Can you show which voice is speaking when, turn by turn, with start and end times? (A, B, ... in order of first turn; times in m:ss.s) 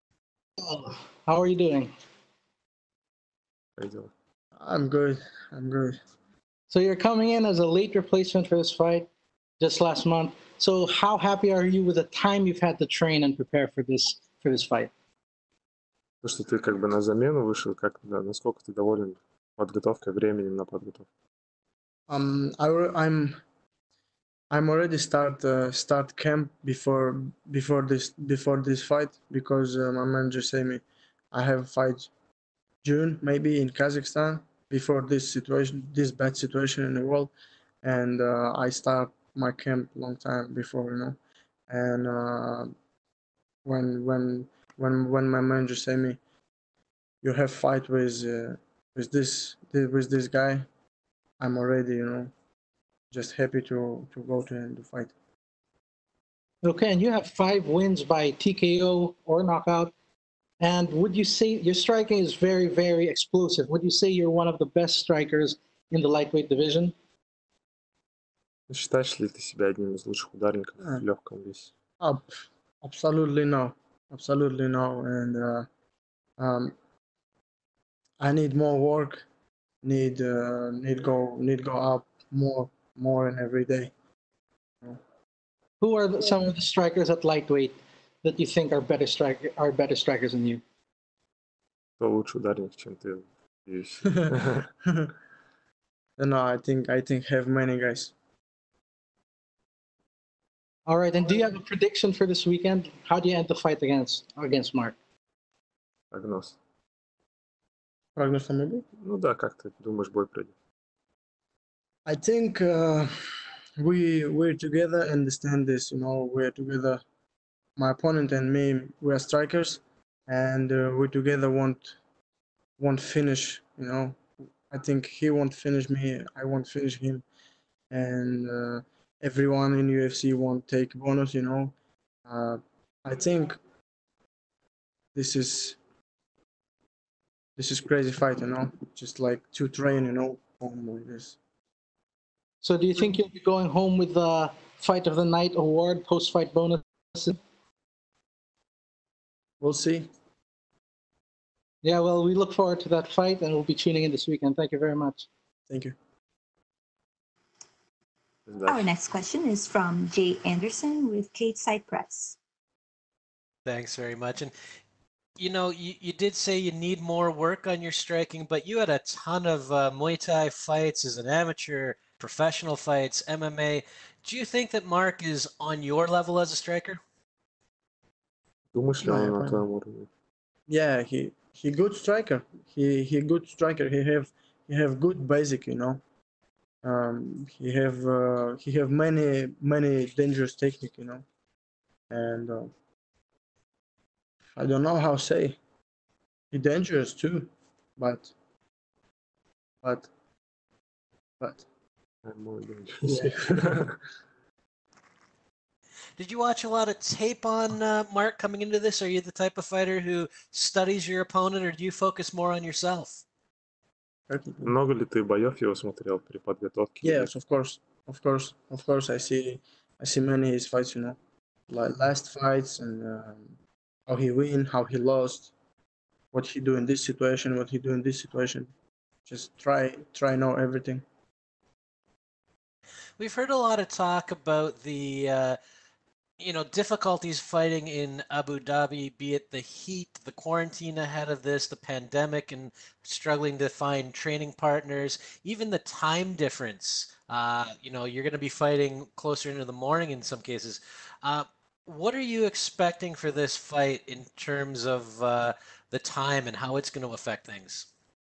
0:00.6-0:01.9 A
0:03.8-0:04.1 B
0:04.6-0:06.0 C
0:06.7-0:09.1 A
0:09.6-0:14.9 A
0:16.2-0:21.0 B
0:22.1-0:23.4 C
0:24.5-0:32.1 C
0:32.8-0:37.3 C
0:37.8-0:41.2 C
0:41.7-0:42.7 C
0:43.6-0:46.2 C
0:47.2-0:50.6 C
0:51.4-0:52.3 C
0:53.1-0:55.1 C
0:56.6-0:59.9 A
1:00.6-1:06.9 A
1:08.7-1:11.7 B
1:12.0-1:12.3 C
1:12.8-1:15.7 C
1:16.4-1:16.7 C
1:18.2-1:19.2 C
1:19.8-1:23.9 C
1:25.8-1:30.6 A
1:32.0-1:34.7 B
1:36.2-1:38.1 C
1:40.8-1:45.0 A
1:46.1-1:46.6 B
1:48.2-1:48.8 C
1:49.0-1:50.5 B
1:52.0-1:53.1 C
1:53.8-1:57.0 C
1:57.8-2:02.0 C
2:02.8-2:07.2 C
2:07.9-2:11.7 C
2:12.2-2:13.6 C
2:15.1-2:15.8 C
2:17.6-2:21.4 C
2:22.6-2:27.4 A
2:29.6-2:30.1 C
2:31.8-2:35.3 A
2:35.7-2:35.9 C
2:38.5-2:38.9 B
2:38.6-2:42.4 D
2:43.6-2:44.5 E
2:45.4-2:57.0 E
2:58.7-3:00.1 B
2:59.0-2:59.6 C
3:00.7-3:06.0 C
3:06.8-3:11.2 C
3:12.1-3:12.7 C
3:14.6-3:15.6 C
3:16.5-3:18.3 C
3:19.8-3:20.1 C
3:22.2-3:24.0 B
3:23.0-3:23.8 C
3:26.2-3:33.2 E
3:34.3-3:34.7 C
3:34.6-3:37.3 B
3:37.0-3:41.2 C
3:41.7-3:43.5 C
3:44.1-3:45.5 C
3:46.3-3:48.7 C
3:49.2-3:51.0 C
3:53.2-3:55.6 E
3:56.4-4:17.9 E